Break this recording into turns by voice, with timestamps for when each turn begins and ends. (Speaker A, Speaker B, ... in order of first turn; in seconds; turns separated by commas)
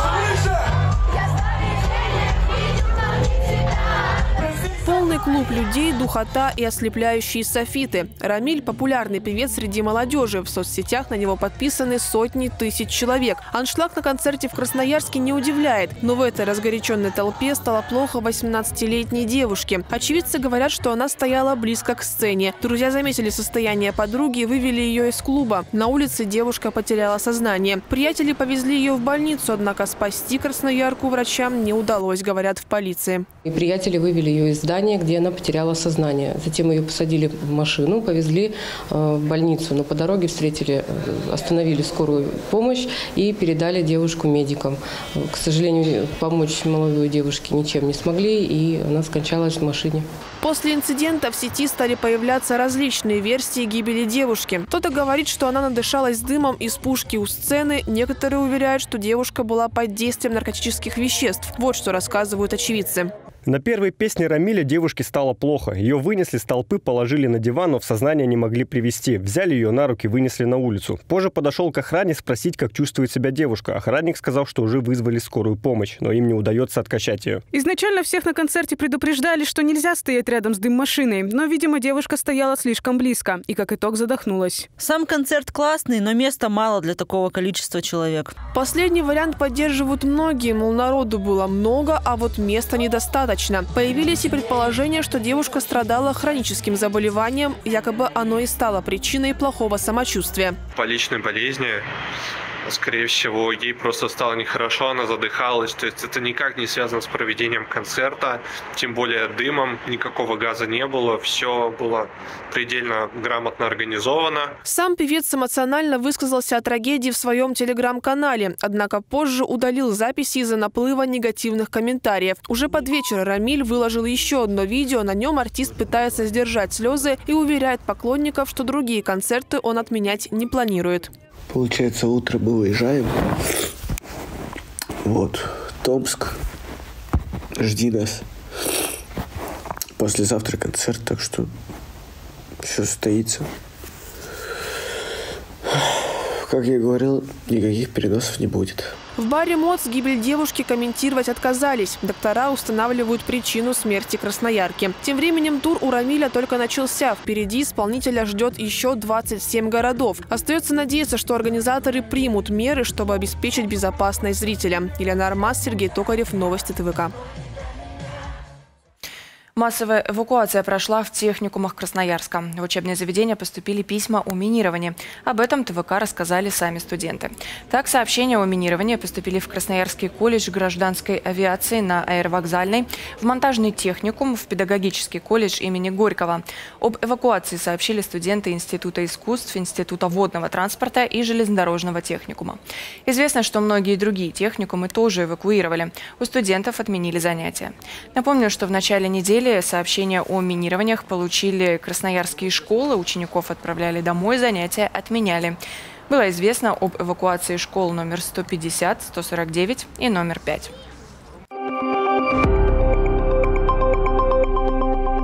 Speaker A: 4.8-33.2, Speaker B: 33.4-50.1, Speaker A: 50.4-63.1, Speaker C: 63.5-77.4, Speaker D: 77.5-84.7, Speaker E: 84.8-88.3, Speaker A: 88.5-100.6, Speaker F: 100.7-101.9, Speaker F: 102.6-114.5, Speaker A: 114.7-131.1, Speaker G: 131.5-133.3, Speaker G: 135.0-136.4, Speaker G: 137.6-138.3, Speaker G: 140.0-141.5, Speaker G: 142.6-143.5, Speaker G: 145.7-148.9, Speaker A: 149.2-167.1, Speaker H: 169.6-210.7